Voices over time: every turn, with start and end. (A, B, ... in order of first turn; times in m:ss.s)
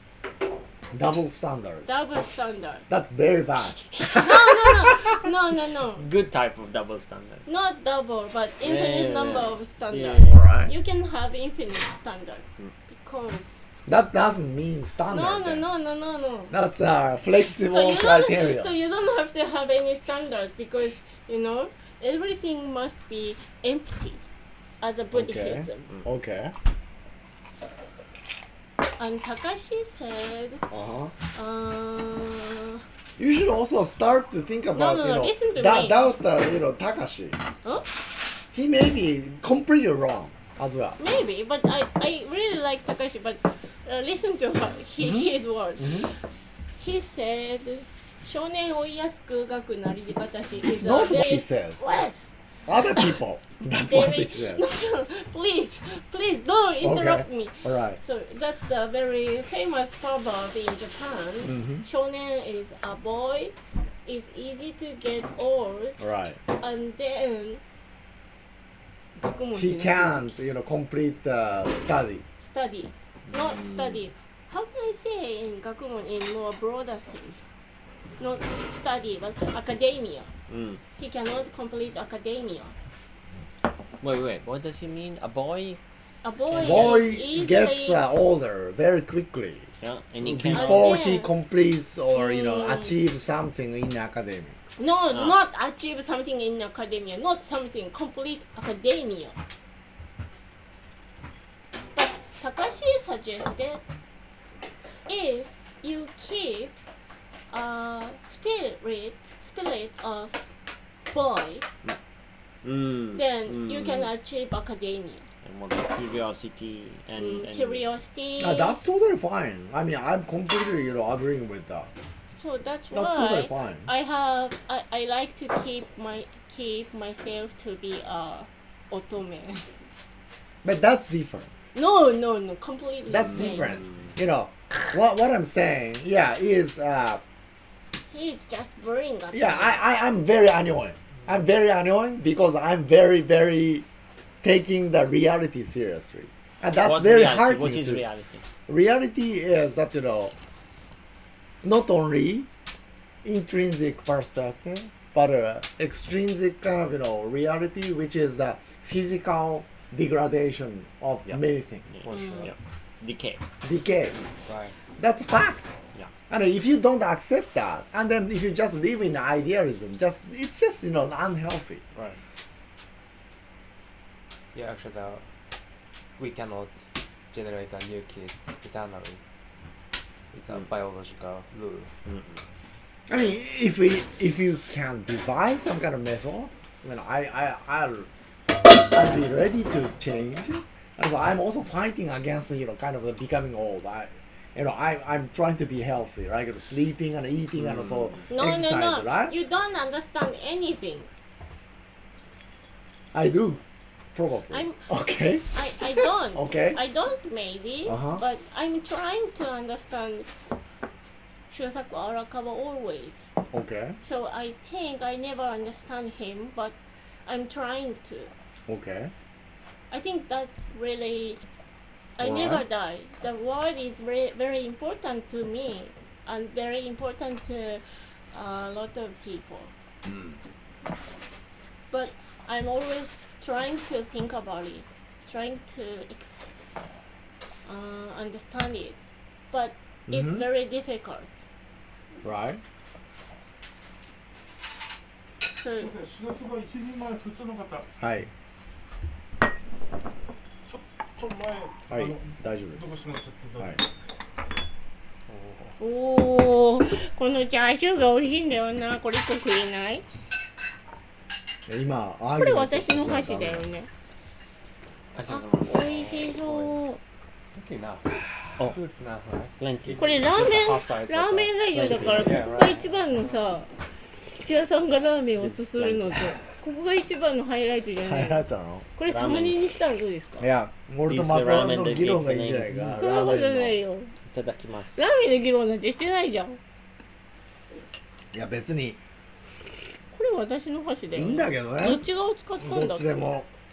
0:00.9-0:02.0 A
0:01.8-0:02.9 B
0:02.9-0:05.2 A
0:03.9-0:06.0 B
0:05.9-0:07.4 C
0:07.4-0:13.6 B
0:08.6-0:10.4 C
0:10.3-0:10.7 A
0:13.8-0:15.6 A
0:15.1-0:16.5 B
0:16.5-0:18.7 A
0:17.7-0:24.2 B
0:24.8-0:25.9 B
0:25.1-0:26.5 A
0:29.0-0:30.7 B
0:30.7-0:31.1 A
0:31.3-0:32.8 B
0:33.2-0:37.4 A
0:34.7-0:36.1 B
0:38.5-0:41.0 A
0:41.0-0:46.2 B
0:45.0-0:46.1 A
0:46.8-0:52.2 B
0:50.6-0:51.8 A
0:52.6-0:54.6 A
0:53.8-1:06.0 B
0:56.8-0:58.0 A
1:01.4-1:01.8 A
1:06.0-1:06.4 A
1:06.5-1:07.6 B
1:09.2-1:10.3 B
1:09.5-1:12.2 A
1:12.4-1:17.5 B
1:13.3-1:14.0 C
1:18.2-1:20.3 B
1:20.5-1:20.8 C
1:21.0-1:22.7 B
1:24.0-1:25.8 C
1:26.2-1:28.0 B
1:26.5-1:27.0 C
1:26.6-1:29.7 A
1:29.8-1:31.0 C
1:30.2-1:34.8 A
1:30.5-1:31.3 B
1:32.1-1:33.0 B
1:34.8-1:39.4 B
1:41.9-1:43.9 B
1:45.1-1:46.8 B
1:47.5-1:50.4 B
1:51.1-1:51.6 B
1:52.6-1:54.1 C
1:53.1-1:55.2 B
1:55.4-1:57.8 C
1:57.2-1:58.8 B
1:58.4-2:01.9 A
2:02.4-2:09.8 B
2:02.9-2:03.9 A
2:10.6-2:11.5 A
2:11.7-2:13.8 B
2:13.1-2:17.2 A
2:18.1-2:19.8 B
2:19.3-2:23.8 A
2:24.4-2:28.0 A
2:26.8-2:28.4 C
2:28.7-2:30.3 A
2:31.6-2:32.5 A
2:33.2-2:42.0 A
2:41.2-2:43.4 C
2:42.0-2:42.5 D
2:42.1-2:42.5 B
2:43.6-2:44.2 A
2:44.4-2:44.8 D
2:45.0-2:45.7 A
2:46.3-2:51.8 A
2:54.5-2:55.3 D
2:56.2-2:56.7 D
2:57.3-2:59.2 D
3:00.3-3:01.9 D
3:02.0-3:02.4 C
3:03.1-3:08.1 A
3:08.6-3:19.3 A
3:17.6-3:18.2 C
3:18.3-3:21.1 B
3:23.1-3:23.6 A
3:24.1-3:26.8 A
3:24.5-3:24.8 B
3:25.5-3:30.3 B
3:27.8-3:28.2 A
3:31.5-3:33.3 B
3:33.5-3:34.0 A
3:34.0-3:38.3 B
3:38.7-3:39.1 A
3:39.9-3:41.4 B
3:42.2-3:49.7 B
3:42.2-3:42.6 A
3:50.0-3:50.4 A
3:51.9-3:56.4 B
3:57.6-3:59.0 B
3:59.5-4:01.4 B
4:00.1-4:00.4 A
4:02.2-4:02.6 A
4:05.6-4:06.0 B
4:06.0-4:07.8 E
4:08.0-4:08.3 A
4:11.2-4:11.7 E
4:11.9-4:13.0 A
4:13.0-4:13.4 E
4:13.5-4:13.8 A
4:15.3-4:15.7 C
4:15.8-4:20.0 B
4:21.7-4:23.6 A
4:22.3-4:23.9 B
4:25.1-4:26.0 C
4:25.3-4:27.0 B
4:25.7-4:26.8 D
4:27.5-4:33.1 D
4:29.6-4:30.2 C
4:30.0-4:33.7 B
4:31.7-4:32.4 C
4:34.3-4:40.5 B
4:35.4-4:36.4 C
4:38.0-4:38.9 A
4:39.0-4:39.6 C
4:40.4-4:43.6 A
4:41.1-4:45.0 C
4:42.9-4:44.1 B
4:44.9-4:46.6 B
4:48.3-4:49.0 A
4:50.1-4:53.3 B
4:51.1-4:52.0 A
4:52.6-4:53.5 A